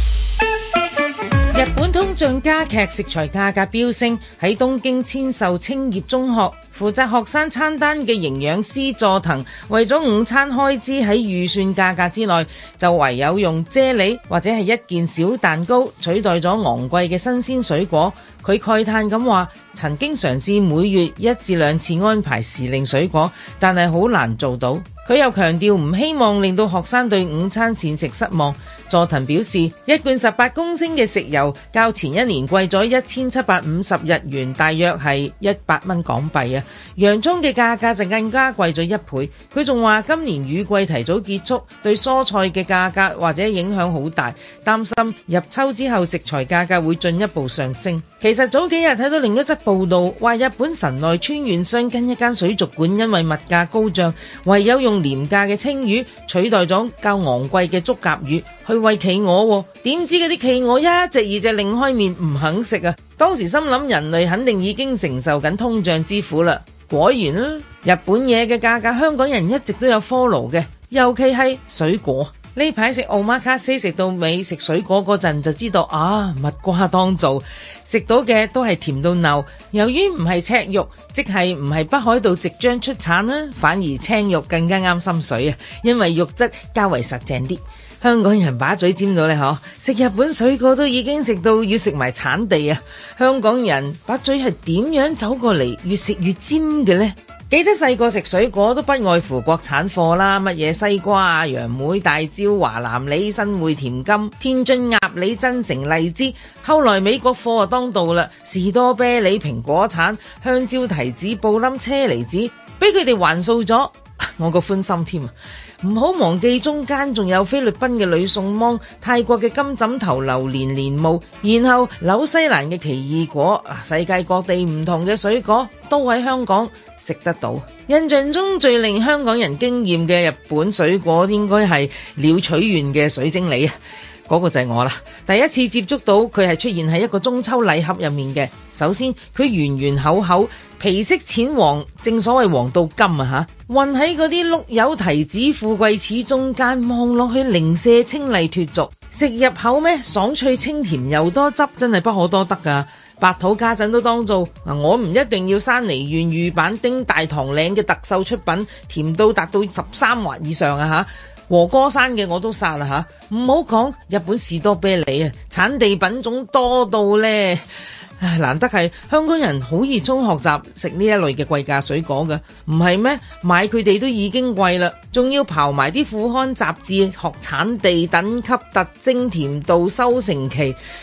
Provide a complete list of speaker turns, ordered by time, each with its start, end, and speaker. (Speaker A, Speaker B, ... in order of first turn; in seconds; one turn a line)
Speaker A: 1.5-133.7
Speaker A: 134.3-167.6
Speaker A: 168.2-180.8